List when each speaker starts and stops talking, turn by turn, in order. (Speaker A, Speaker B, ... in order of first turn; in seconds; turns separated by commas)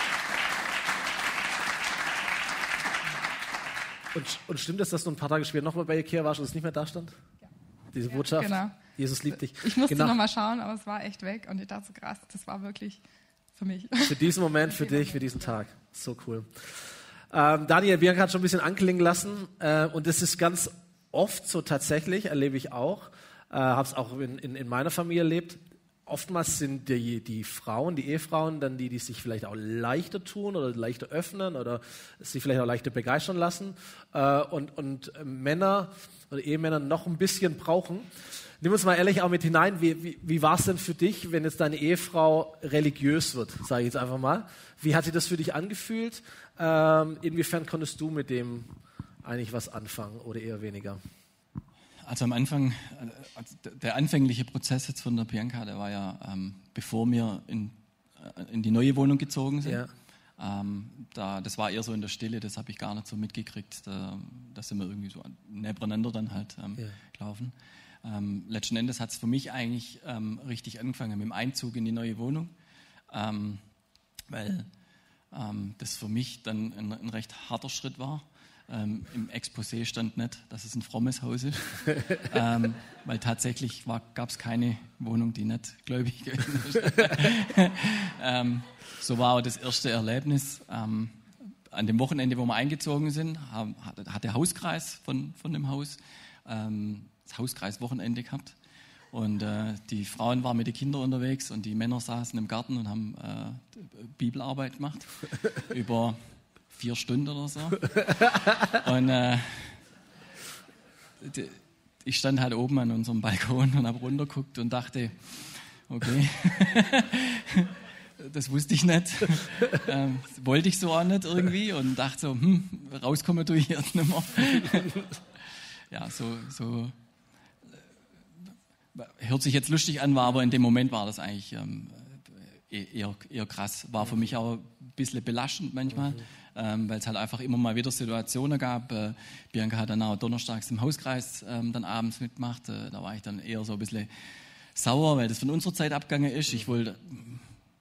Speaker A: 4.1-7.2, Speaker A: 7.9-10.2, Speaker B: 8.1-13.0, Speaker B: 13.6-15.3, Speaker A: 14.0-16.7, Speaker A: 17.3-38.1, Speaker A: 38.6-48.7, Speaker A: 49.2-51.0, Speaker C: 52.1-59.8, Speaker A: 59.6-59.9, Speaker C: 60.4-72.5, Speaker C: 73.1-73.6, Speaker C: 74.3-74.7, Speaker C: 75.3-98.5, Speaker C: 99.1-106.2, Speaker C: 106.7-109.8, Speaker C: 111.2-125.1, Speaker C: 125.9-126.9, Speaker C: 128.9-144.1, Speaker C: 144.7-147.5